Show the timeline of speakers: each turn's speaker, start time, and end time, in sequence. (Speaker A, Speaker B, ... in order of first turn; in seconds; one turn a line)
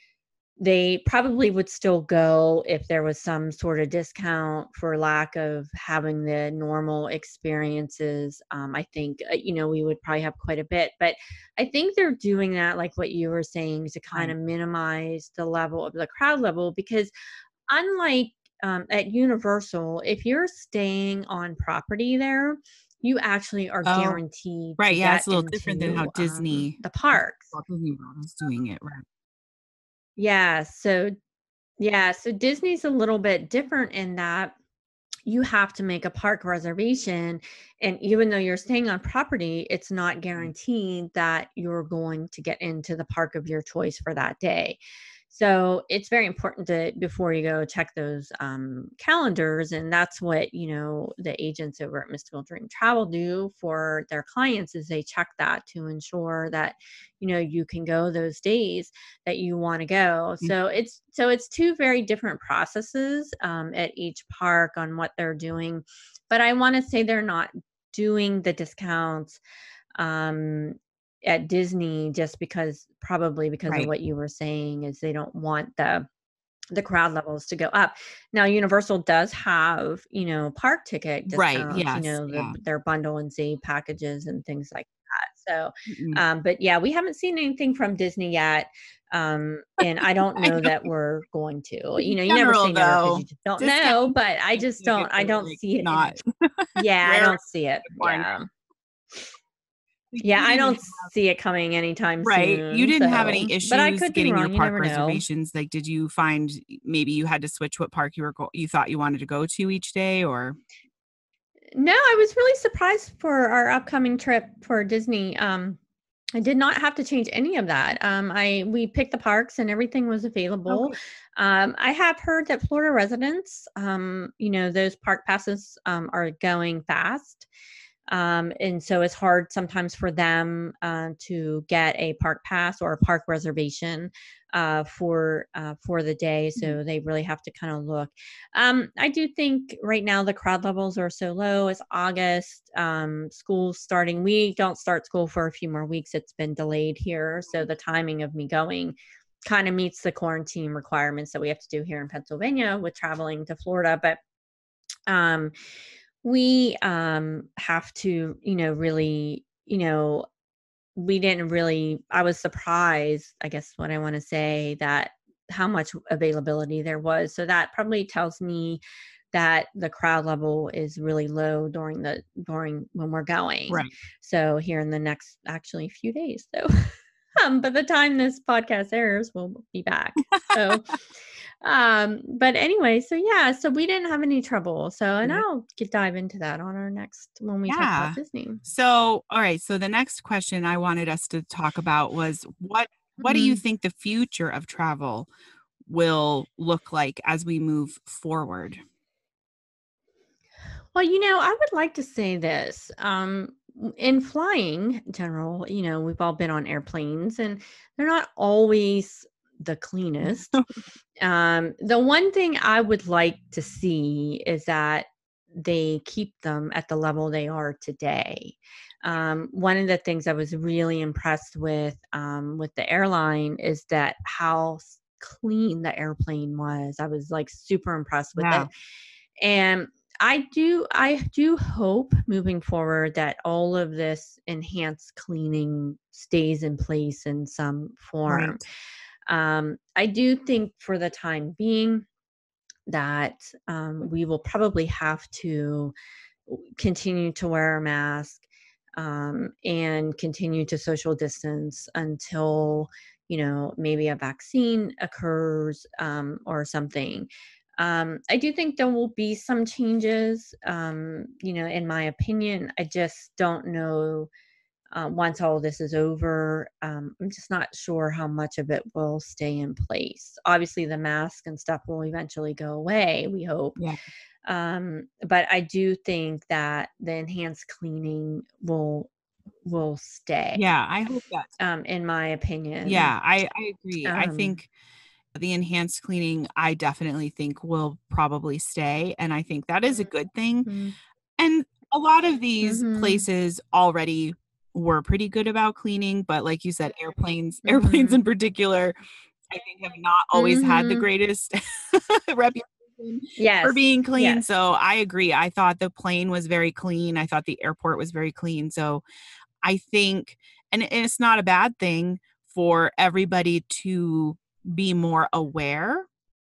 Speaker A: 0.6-17.1
Speaker A: 17.7-27.5
Speaker B: 23.8-24.2
Speaker B: 24.8-29.0
Speaker A: 30.2-31.1
Speaker A: 31.8-34.5
Speaker A: 35.2-44.8
Speaker A: 45.3-69.4
Speaker A: 70.0-76.0
Speaker A: 76.7-96.2
Speaker B: 81.3-82.5
Speaker B: 85.9-86.2
Speaker B: 90.4-90.8
Speaker B: 92.0-98.3
Speaker A: 96.8-98.5
Speaker B: 100.1-101.1
Speaker A: 100.2-105.2
Speaker B: 102.2-110.6
Speaker A: 111.8-115.8
Speaker A: 116.3-127.5
Speaker B: 120.7-121.0
Speaker A: 128.1-154.2
Speaker A: 155.1-155.5
Speaker A: 156.2-160.3
Speaker A: 160.9-180.9
Speaker B: 173.7-173.9
Speaker B: 180.2-181.0
Speaker A: 181.6-188.6
Speaker B: 187.7-195.3
Speaker A: 193.2-193.6
Speaker B: 195.8-198.8
Speaker A: 200.9-210.5
Speaker B: 210.2-210.8
Speaker A: 211.2-228.7
Speaker B: 228.3-228.7
Speaker A: 229.4-238.6
Speaker B: 238.3-238.6
Speaker A: 239.2-242.1
Speaker A: 242.9-245.9
Speaker A: 246.5-248.4
Speaker A: 248.9-264.3
Speaker A: 264.9-273.8
Speaker A: 274.4-279.1
Speaker A: 279.6-280.6
Speaker B: 280.5-281.5
Speaker A: 281.6-283.1
Speaker B: 282.8-284.7
Speaker A: 284.0-284.6
Speaker B: 285.3-290.8
Speaker A: 290.6-290.9
Speaker B: 291.4-299.0
Speaker A: 292.6-293.2
Speaker A: 297.6-298.2
Speaker B: 299.5-309.0
Speaker A: 300.3-301.1
Speaker A: 303.4-304.4
Speaker B: 309.6-316.1